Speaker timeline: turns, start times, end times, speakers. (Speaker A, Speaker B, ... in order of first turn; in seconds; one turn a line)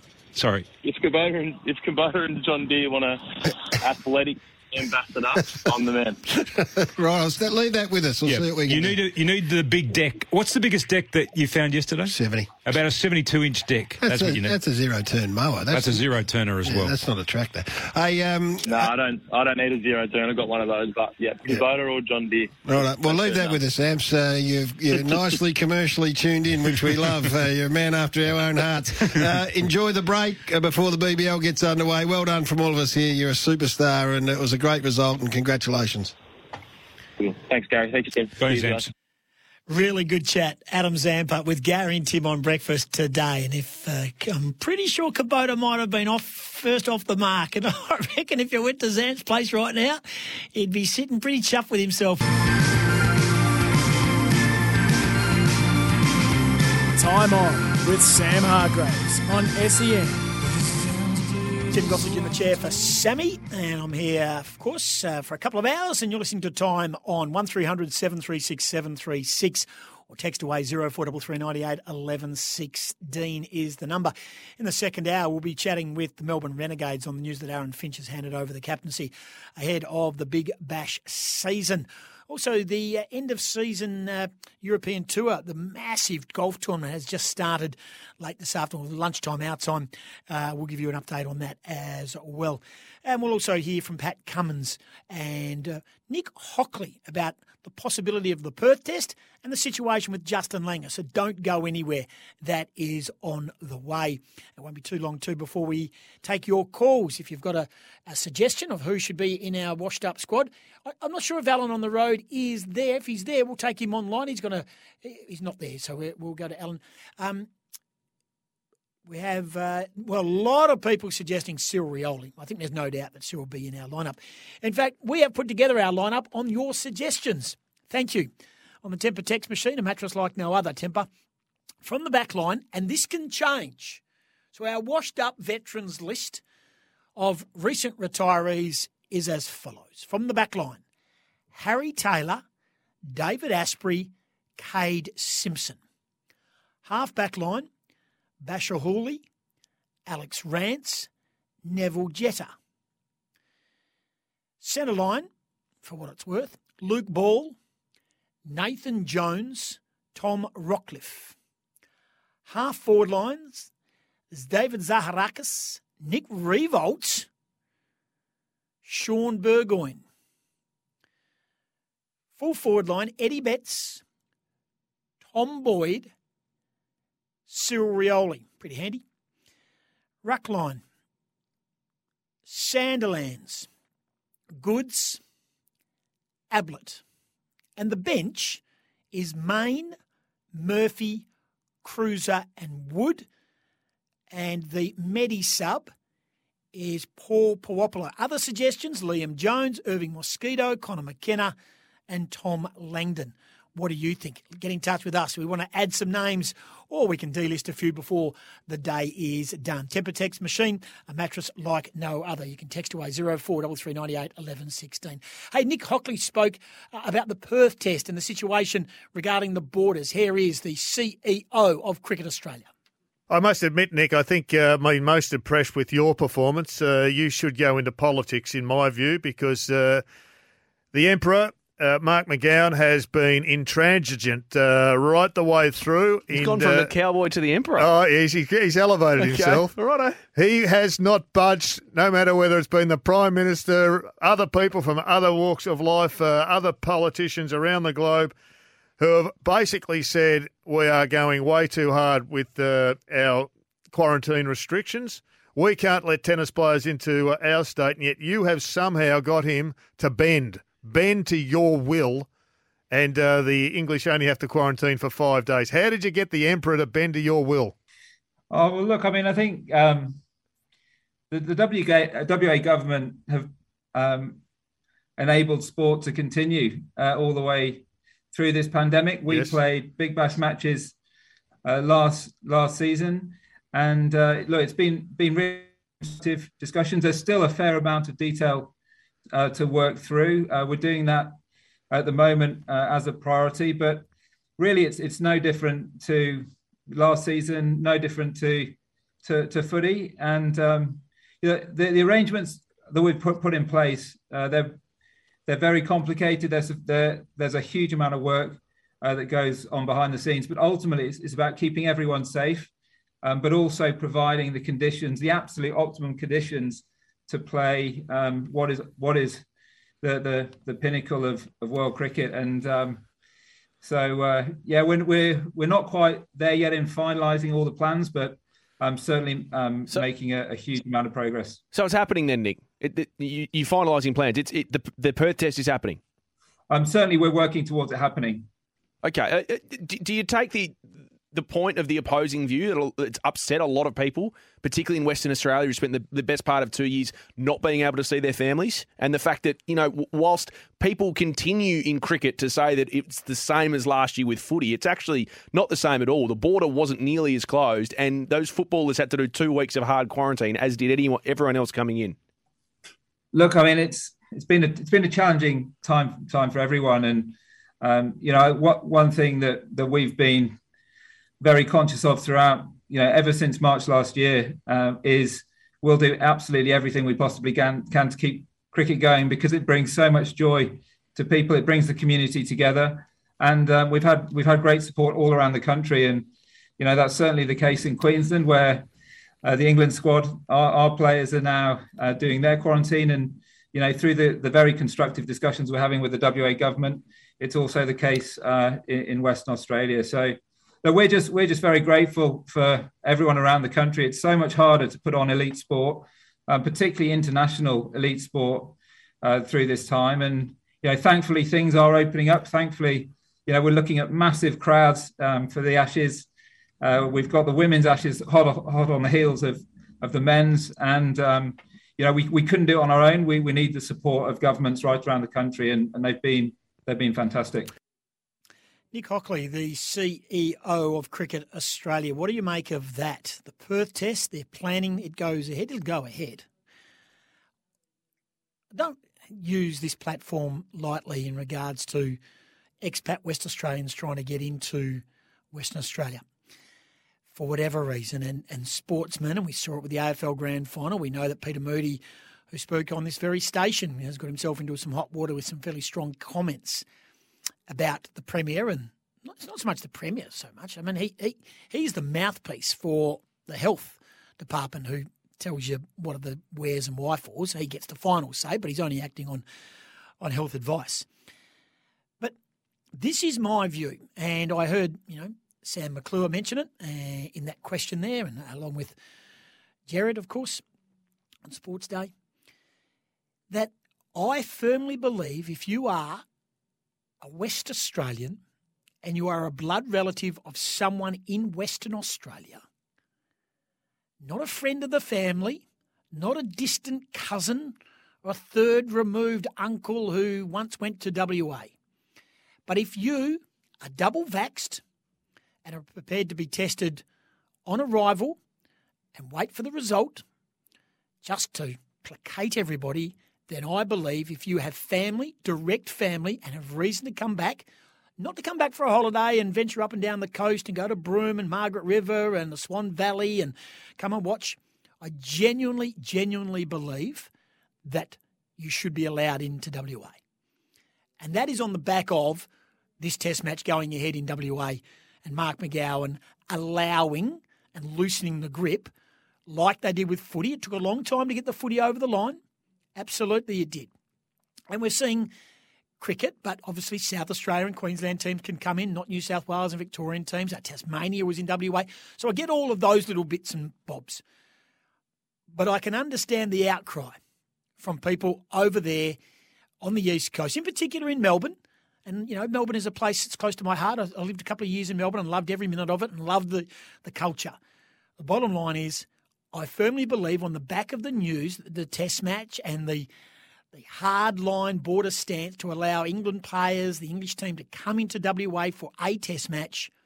Speaker A: 0.3-0.7
Speaker B: 0.8-6.2
Speaker C: 6.4-9.0
Speaker A: 8.3-14.6
Speaker C: 12.1-12.5
Speaker C: 14.0-16.1
Speaker A: 15.7-16.9
Speaker C: 16.6-18.9
Speaker B: 18.7-23.6
Speaker C: 22.7-36.1
Speaker B: 37.2-38.9
Speaker A: 38.4-38.9
Speaker D: 39.7-50.0
Speaker D: 50.5-52.2
Speaker E: 57.0-60.3
Speaker D: 61.7-117.5
Speaker D: 119.1-128.3
Speaker D: 128.8-131.1
Speaker D: 131.8-134.0
Speaker D: 134.6-136.4
Speaker D: 137.2-140.8
Speaker D: 141.5-142.4
Speaker D: 143.1-145.8
Speaker D: 146.8-147.7
Speaker D: 148.4-149.2
Speaker D: 150.1-151.1
Speaker D: 151.7-152.5
Speaker D: 154.6-155.3
Speaker D: 155.8-157.6
Speaker D: 158.4-161.3
Speaker D: 162.5-163.7
Speaker D: 164.3-167.3
Speaker D: 168.8-170.0
Speaker D: 172.4-174.0
Speaker D: 175.3-176.1
Speaker D: 177.5-179.0
Speaker D: 180.2-180.8
Speaker D: 182.5-183.7
Speaker D: 184.6-185.2
Speaker D: 186.5-187.0
Speaker D: 187.8-190.0
Speaker D: 190.5-191.3
Speaker D: 191.8-193.3
Speaker D: 194.3-195.9
Speaker D: 196.7-201.6
Speaker D: 202.1-222.7
Speaker F: 223.3-230.0
Speaker F: 230.9-236.9
Speaker G: 236.3-237.9
Speaker F: 237.8-239.8
Speaker G: 239.2-240.2
Speaker F: 240.3-248.3
Speaker F: 249.0-262.3
Speaker F: 262.9-267.7
Speaker H: 268.5-270.2
Speaker H: 271.3-274.4
Speaker H: 275.2-280.9
Speaker F: 279.3-279.6
Speaker H: 281.6-288.7
Speaker H: 289.3-291.4
Speaker H: 291.9-294.1
Speaker H: 294.6-304.8
Speaker H: 305.5-312.7
Speaker H: 313.2-319.4
Speaker H: 320.0-323.0
Speaker H: 323.8-331.6
Speaker G: 331.7-336.0
Speaker H: 336.7-338.5
Speaker G: 339.0-362.2
Speaker H: 363.3-370.6
Speaker H: 371.4-388.9
Speaker H: 389.4-416.3
Speaker H: 416.8-427.7
Speaker D: 428.9-436.5
Speaker D: 438.7-442.2
Speaker D: 442.8-446.2
Speaker D: 447.3-456.9
Speaker D: 457.7-469.4
Speaker D: 470.2-471.1
Speaker D: 472.9-478.9
Speaker D: 479.9-480.6
Speaker D: 481.5-482.1
Speaker D: 483.5-486.2
Speaker D: 487.2-488.4
Speaker D: 489.0-492.6
Speaker D: 494.2-501.7
Speaker D: 502.7-504.8
Speaker D: 505.6-507.0
Speaker D: 507.7-508.4
Speaker D: 509.1-510.2
Speaker D: 511.2-517.7
Speaker D: 518.2-527.3
Speaker D: 527.9-530.2
Speaker D: 531.2-532.5
Speaker D: 533.0-538.9
Speaker D: 539.5-542.4
Speaker D: 543.0-543.9
Speaker D: 544.7-545.3
Speaker D: 546.0-554.2
Speaker D: 555.5-557.2
Speaker D: 557.8-559.2
Speaker D: 559.8-567.6
Speaker D: 568.2-573.1
Speaker D: 573.7-579.9